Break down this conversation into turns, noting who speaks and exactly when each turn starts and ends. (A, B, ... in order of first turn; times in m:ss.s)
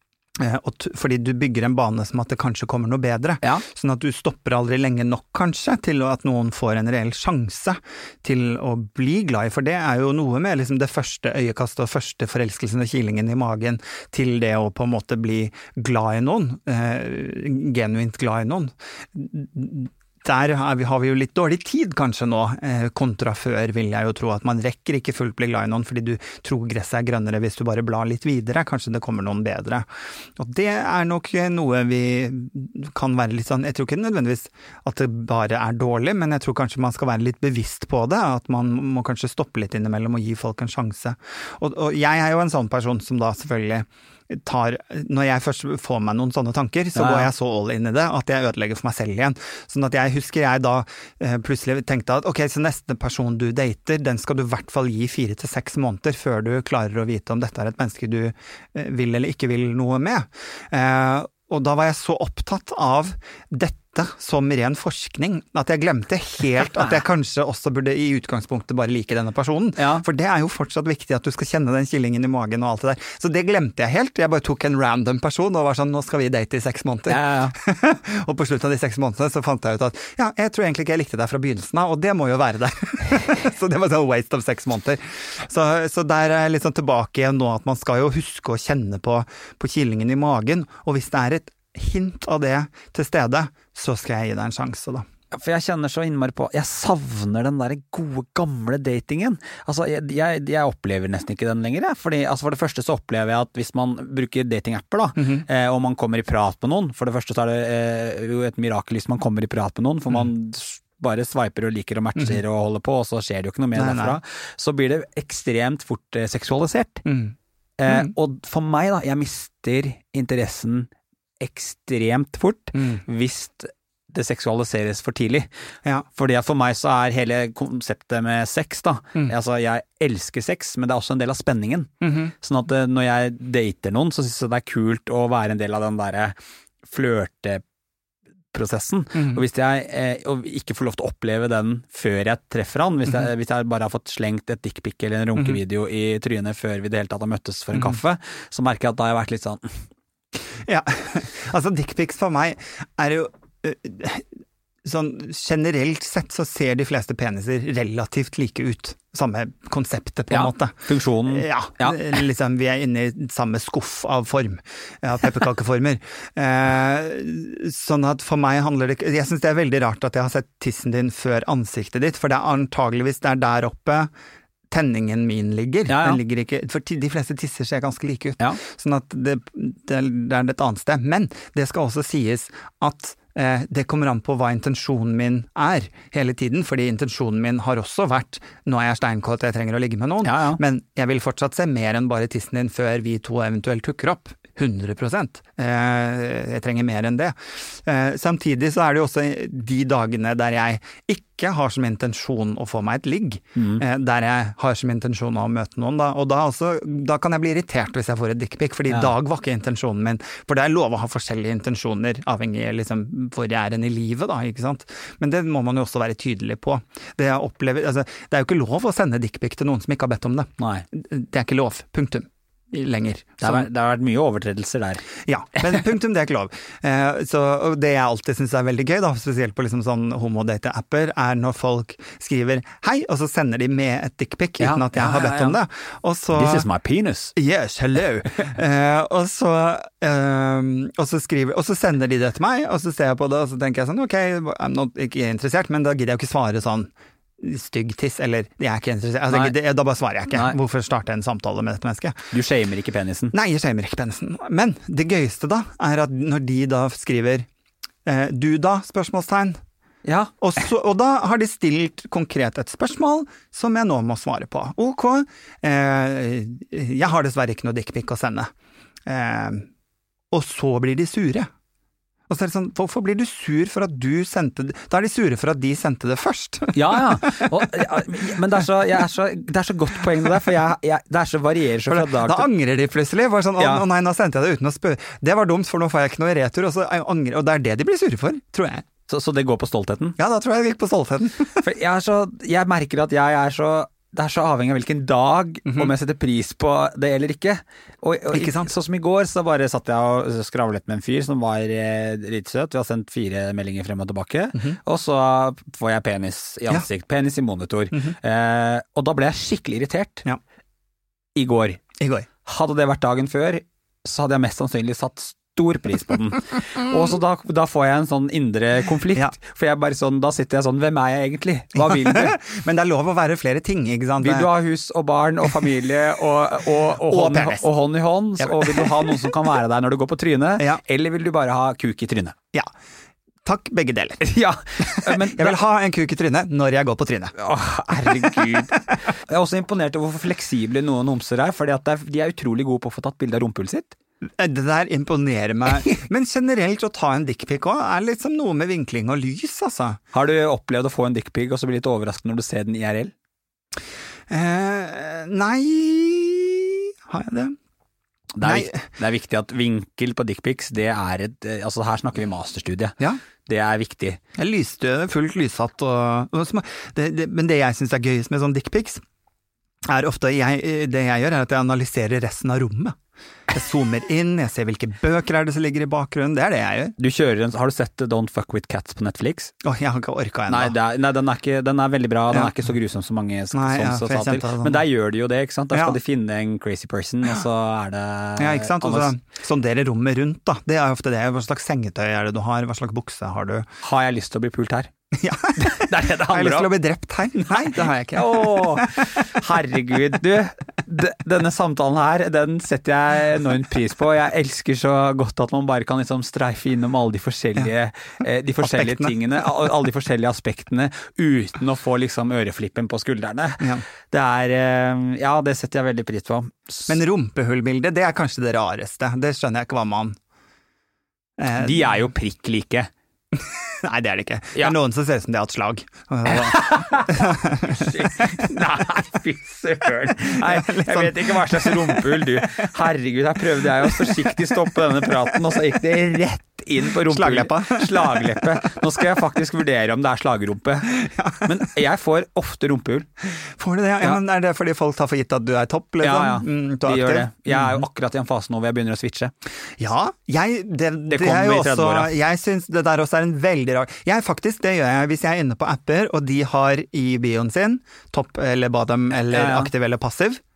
0:00.4-1:35.0 A
0:47.0-0:47.3 B
1:09.8-1:10.0 B
1:17.1-1:17.5 B
1:35.3-1:57.0 B
1:45.2-1:45.4 A
1:53.7-1:54.2 A
1:57.0-1:57.3 A
1:57.8-2:05.5 B
1:57.9-1:58.1 A
2:06.1-2:17.6 B
2:12.0-2:12.3 A
2:18.5-2:29.8 B
2:19.2-2:19.4 A
2:27.7-2:28.0 A
2:30.6-2:34.3 A
2:34.8-2:54.1 A
2:40.3-2:42.2 B
2:54.7-3:43.7 A
2:55.9-2:56.2 B
3:10.2-3:10.6 B
3:23.6-3:23.8 B
3:40.6-3:40.8 B
3:43.4-3:45.1 B
3:45.2-3:56.6 A
3:54.6-3:55.6 B
3:56.3-3:57.3 B
3:57.4-4:12.2 A
4:09.3-4:09.5 B
4:12.3-4:13.3 B
4:13.3-4:17.5 A
4:18.0-4:19.6 A
4:20.0-4:20.3 B
4:20.4-4:28.5 A
4:29.1-4:29.7 A
4:30.3-4:31.5 A
4:32.3-4:37.8 A
4:36.7-4:42.5 B
4:41.9-4:48.8 A
4:43.6-4:43.8 B
4:49.1-4:50.2 B
4:50.2-4:51.6 A
4:51.5-5:10.2 B
4:55.7-4:55.9 A
4:58.3-4:58.7 A
5:11.4-5:11.8 B
5:12.0-5:12.3 A
5:12.4-5:22.4 B
5:21.8-5:24.5 A
5:24.2-5:32.4 B
5:27.0-5:27.6 A
5:28.4-5:29.3 A
5:33.4-5:34.2 A
5:34.2-5:35.6 B
5:34.8-5:37.3 A
5:37.3-5:43.9 B
5:38.0-5:39.0 A
5:44.4-5:50.0 A
5:45.7-5:46.0 B
5:50.1-5:53.1 B
5:54.3-5:57.6 A
5:58.3-6:02.9 B
5:58.4-5:58.8 A
6:03.4-6:04.2 B
6:04.3-6:09.0 A
6:09.8-6:13.0 A
6:13.5-6:17.0 A
6:17.0-6:19.5 B
6:19.6-6:20.7 A
6:20.5-6:29.1 B
6:23.5-6:24.8 A
6:25.7-6:26.0 A
6:28.4-6:33.7 A
6:33.8-6:34.9 B
6:35.1-6:39.3 A
6:35.6-6:36.7 B
6:37.5-6:57.0 B
6:48.6-6:49.4 A
6:56.9-7:00.2 A
7:01.4-7:01.9 A
7:01.5-7:02.9 B
7:03.3-7:08.5 A
7:06.2-7:23.1 B
7:10.2-7:12.7 A
7:13.6-7:15.4 A
7:16.8-7:18.8 A
7:21.0-7:21.5 A
7:23.4-7:27.8 A
7:26.0-7:29.3 B
7:29.8-7:40.4 A
7:31.1-7:32.1 B
7:39.2-7:39.7 B